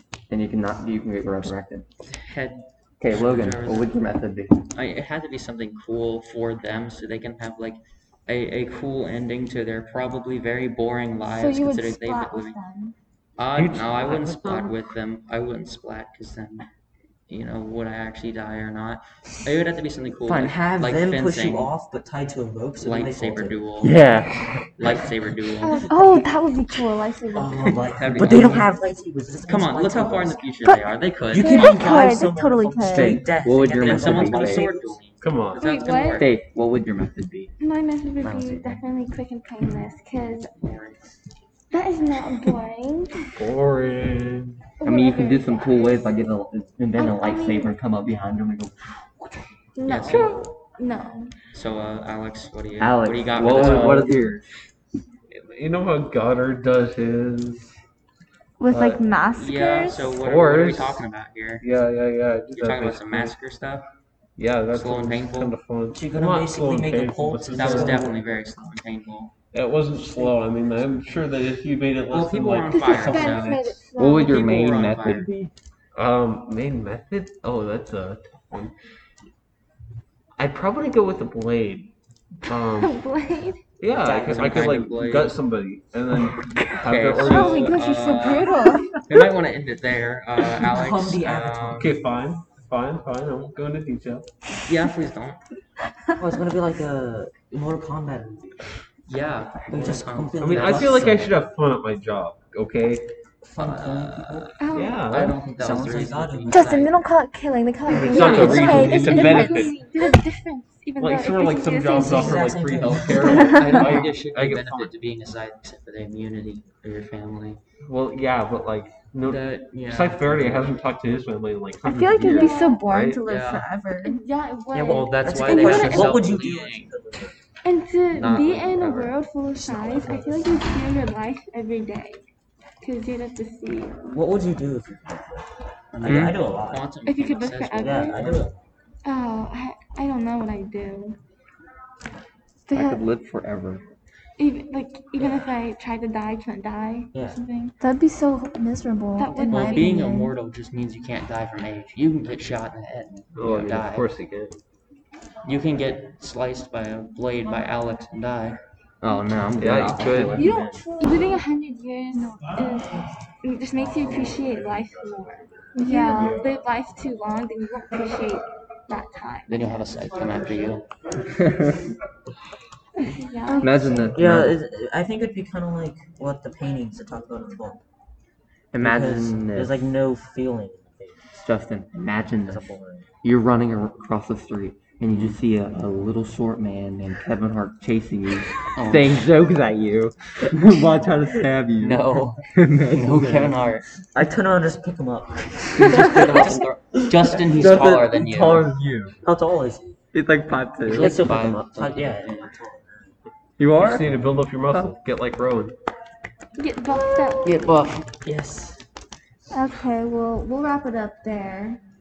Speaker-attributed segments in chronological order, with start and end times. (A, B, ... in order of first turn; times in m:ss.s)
0:00.3-0:01.9 A
0:02.1-0:04.2 B
0:03.0-0:04.6 A
0:04.7-0:12.6 B
0:11.3-0:13.0 C
0:13.4-0:16.7 B
0:13.6-0:14.9 D
0:17.3-0:21.7 B
0:20.3-0:23.6 D
0:22.8-0:24.0 B
0:23.8-0:24.5 A
0:24.7-0:25.9 B
0:25.6-0:28.6 C
0:27.3-0:30.4 D
0:27.6-0:28.7 B
0:28.2-0:28.7 A
0:29.4-0:31.8 B
0:31.3-0:35.0 D
0:31.4-0:33.3 C
0:32.9-0:34.7 A
0:33.7-0:36.3 B
0:35.2-0:35.7 E
0:35.6-0:36.2 F
0:36.1-0:37.5 A
0:37.6-0:40.6 F
0:38.2-0:38.8 D
0:40.6-0:41.0 B
0:41.7-0:43.3 F
0:43.4-0:44.6 E
0:44.8-0:46.0 F
0:44.8-0:49.4 A
0:47.0-0:47.7 F
0:49.8-0:50.2 C
0:49.8-0:50.5 B
0:50.0-0:51.4 F
0:51.5-0:54.1 B
0:52.8-0:54.5 A
0:53.4-0:54.2 E
0:55.3-0:57.7 E
0:58.6-1:00.2 C
0:58.7-0:59.1 E
0:59.4-1:01.7 B
1:00.2-1:01.1 E
1:01.6-1:03.4 E
1:02.5-1:03.9 B
1:04.4-1:08.1 E
1:04.7-1:05.6 B
1:05.9-1:08.2 D
1:07.5-1:09.3 B
1:09.5-1:13.8 E
1:12.1-1:15.3 B
1:12.7-1:13.3 F
1:13.0-1:14.4 C
1:14.0-1:15.5 A
1:16.0-1:18.7 E
1:20.4-1:23.0 E
1:22.7-1:23.6 F
1:23.8-1:28.0 E
1:24.0-1:25.4 B
1:26.8-1:32.0 B
1:27.2-1:28.9 C
1:30.6-1:32.0 D
1:31.7-1:34.3 E
1:34.7-1:35.4 B
1:36.2-1:38.7 D
1:39.1-1:41.1 B
1:39.7-1:41.4 D
1:40.4-1:43.0 E
1:43.4-1:46.7 D
1:43.6-1:46.9 B
1:44.6-1:45.1 F
1:44.7-1:45.4 E
1:46.5-1:49.7 C
1:47.9-1:49.8 E
1:47.9-1:52.5 F
1:48.2-1:48.6 B
1:48.6-1:49.3 D
1:51.0-1:54.9 E
1:51.9-1:53.4 D
1:53.1-1:53.9 C
1:53.4-1:57.6 B
1:57.8-2:03.2 E
1:59.2-2:00.7 B
2:01.8-2:04.2 C
2:02.3-2:02.8 F
2:03.3-2:03.7 B
2:04.0-2:06.1 F
2:04.7-2:07.4 D
2:04.8-2:06.9 B
2:07.6-2:12.2 F
2:08.1-2:09.2 B
2:09.6-2:10.8 D
2:12.8-2:14.2 F
2:14.1-2:16.8 D
2:16.0-2:18.4 B
2:16.0-2:16.4 A
2:17.0-2:18.2 F
2:17.8-2:18.6 D
2:19.0-2:21.2 F
2:22.7-2:23.0 C
2:22.7-2:23.8 A
2:24.4-2:27.8 F
2:27.1-2:27.4 D
2:27.8-2:30.3 C
2:29.2-2:29.9 F
2:29.5-2:34.1 B
2:33.4-2:34.6 E
2:35.4-2:38.6 B
2:39.0-2:40.6 A
2:39.5-2:40.5 E
2:39.7-2:40.2 B
2:40.6-2:41.3 C
2:40.9-2:49.8 F
2:45.8-2:46.5 C
2:46.2-2:46.4 E
2:49.5-2:50.9 B
2:51.4-2:51.8 A
2:53.0-2:53.8 F
2:53.5-2:54.1 C
2:53.6-2:54.6 A
2:54.1-2:57.8 D
2:58.7-2:59.9 A
2:58.8-3:01.4 D
3:01.4-3:13.3 A
3:02.5-3:03.1 D
3:08.8-3:09.1 B
3:11.8-3:13.9 B
3:13.1-3:17.4 D
3:15.8-3:18.7 B
3:17.5-3:19.2 A
3:19.2-3:20.0 D
3:20.1-3:21.2 A
3:20.8-3:22.6 B
3:20.9-3:23.2 D
3:23.6-3:24.1 A
3:23.8-3:25.7 E
3:24.7-3:25.0 A
3:26.6-3:27.5 F
3:27.4-3:28.0 A
3:28.2-3:28.9 D
3:29.5-3:31.8 C